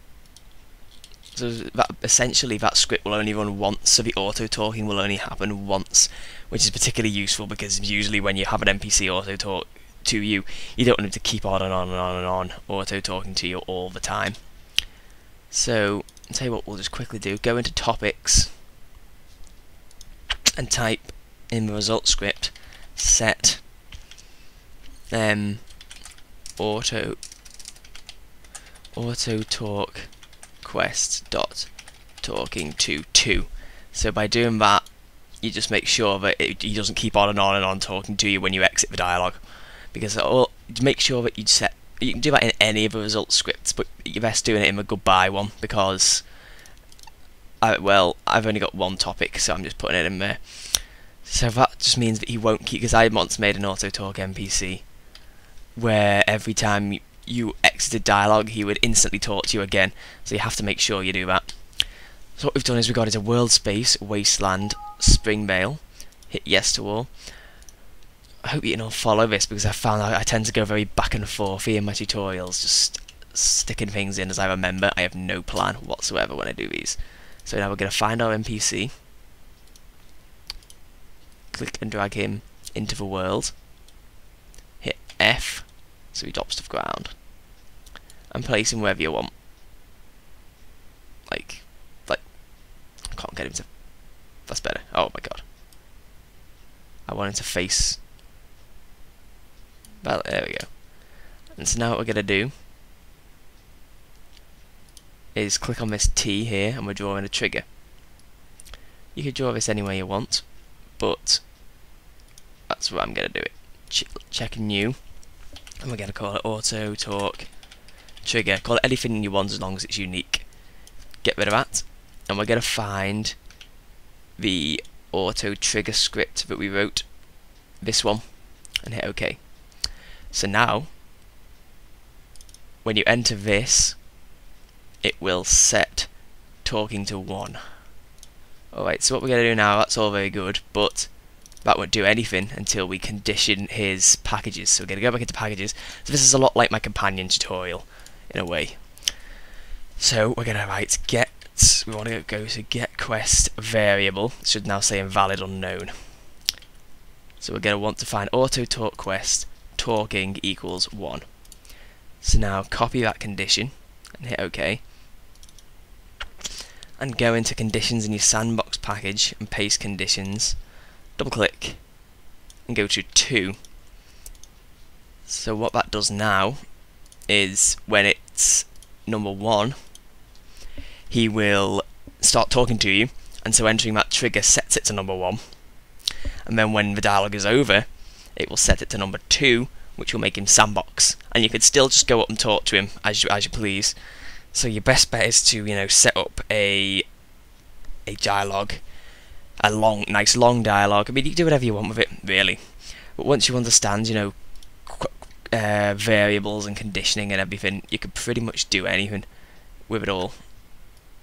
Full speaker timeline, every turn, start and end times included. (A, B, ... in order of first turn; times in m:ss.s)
0:01.3-0:14.8 A
0:15.5-0:18.6 A
0:20.6-0:23.7 A
0:25.1-0:26.0 A
0:26.6-0:27.2 A
0:28.9-0:46.4 A
0:47.6-0:55.2 A
0:55.7-1:07.6 A
1:08.4-1:18.9 A
1:21.5-1:23.6 A
1:24.8-1:27.4 A
1:28.3-1:29.3 A
1:31.2-1:35.4 A
1:37.0-1:38.0 A
1:40.0-1:42.5 A
1:45.3-1:47.7 A
1:49.1-1:51.5 A
1:52.7-2:03.6 A
2:04.4-2:10.9 A
2:12.8-2:14.1 A
2:15.0-2:17.9 A
2:18.7-2:29.3 A
2:30.0-2:36.2 A
2:37.4-2:44.8 A
2:47.0-2:53.6 A
2:55.2-3:00.1 A
3:01.1-3:17.3 A
3:18.0-3:30.5 A